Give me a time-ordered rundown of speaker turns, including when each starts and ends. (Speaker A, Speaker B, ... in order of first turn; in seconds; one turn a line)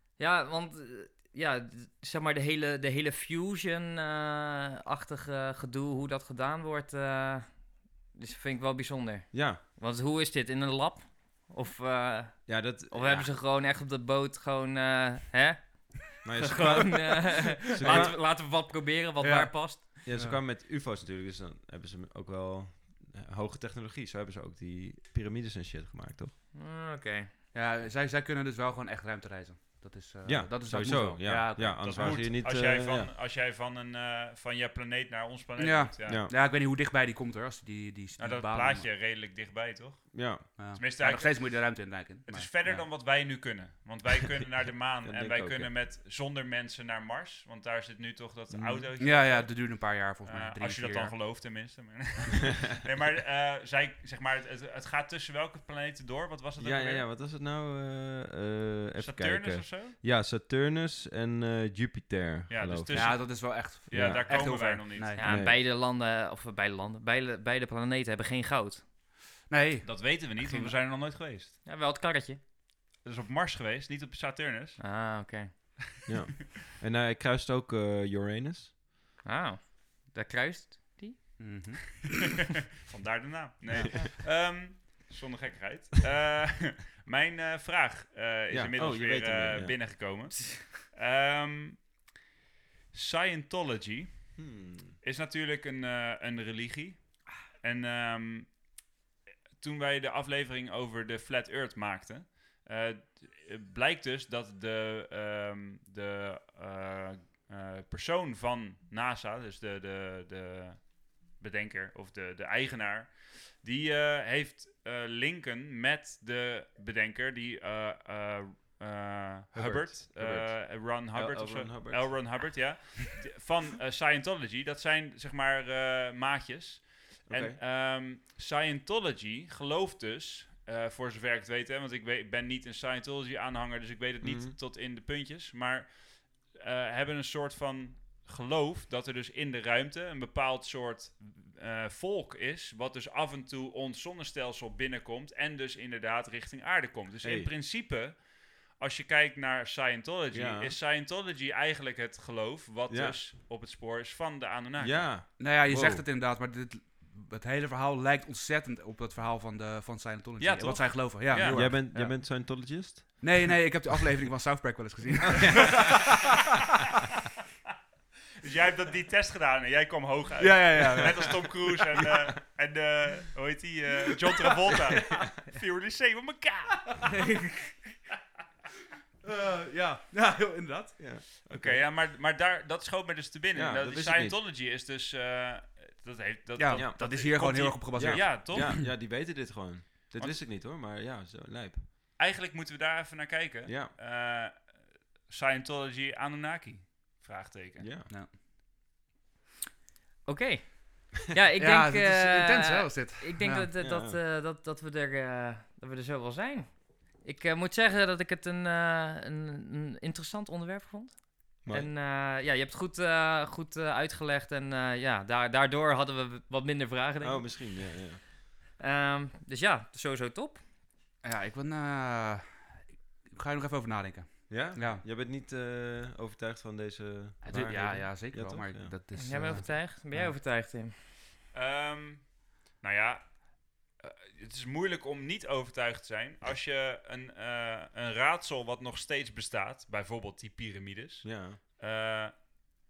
Speaker A: 0.1-20.0
Speaker B: 9.3-9.6
Speaker B: 12.4-13.3
Speaker B: 16.2-18.2
Speaker C: 17.8-18.2
Speaker C: 19.2-20.4
Speaker B: 20.0-26.3
Speaker A: 26.6-27.3
Speaker C: 27.5-32.3
Speaker B: 30.2-33.1
Speaker D: 31.8-36.2
Speaker C: 35.6-38.9
Speaker B: 36.0-36.3
Speaker D: 38.2-57.0
Speaker B: 40.1-40.5
Speaker C: 40.6-42.9
Speaker B: 45.0-45.7
Speaker B: 48.5-48.9
Speaker C: 49.0-51.1
Speaker B: 56.6-65.6
Speaker D: 59.0-59.9
Speaker D: 62.5-65.2
Speaker C: 62.9-65.3
Speaker A: 65.2-68.9
Speaker C: 69.5-70.7
Speaker D: 69.8-71.5
Speaker A: 71.6-72.4
Speaker D: 73.0-74.8
Speaker A: 74.8-75.5
Speaker B: 76.0-78.7
Speaker A: 79.2-81.8
Speaker C: 81.4-82.4
Speaker D: 82.9-91.9
Speaker B: 83.7-84.0
Speaker B: 88.5-90.0
Speaker D: 92.9-94.5
Speaker B: 94.4-95.0
Speaker D: 95.0-98.6
Speaker D: 99.6-155.1
Speaker B: 119.5-122.2
Speaker B: 127.3-127.6
Speaker B: 134.2-134.6
Speaker B: 147.2-147.5
Speaker B: 150.3-150.8
Speaker B: 152.9-153.2
Speaker B: 154.8-156.0
Speaker C: 155.4-166.1
Speaker D: 160.4-161.7
Speaker B: 161.3-163.5
Speaker B: 165.4-165.9
Speaker D: 168.4-177.3
Speaker C: 170.4-172.1
Speaker C: 179.2-181.1
Speaker B: 181.0-181.9
Speaker D: 181.4-188.8
Speaker B: 183.5-184.4
Speaker C: 186.6-188.8
Speaker B: 186.7-187.3
Speaker B: 187.9-191.8
Speaker D: 192.2-197.9
Speaker B: 193.6-193.9
Speaker B: 197.8-198.1
Speaker A: 200.2-218.0
Speaker C: 201.6-203.7
Speaker B: 203.8-204.2
Speaker B: 211.6-211.9
Speaker B: 217.2-218.2
Speaker A: 218.8-220.6
Speaker C: 221.2-225.0
Speaker B: 224.5-229.6
Speaker C: 227.4-230.3
Speaker A: 229.1-231.0
Speaker D: 231.5-242.6
Speaker B: 241.2-241.6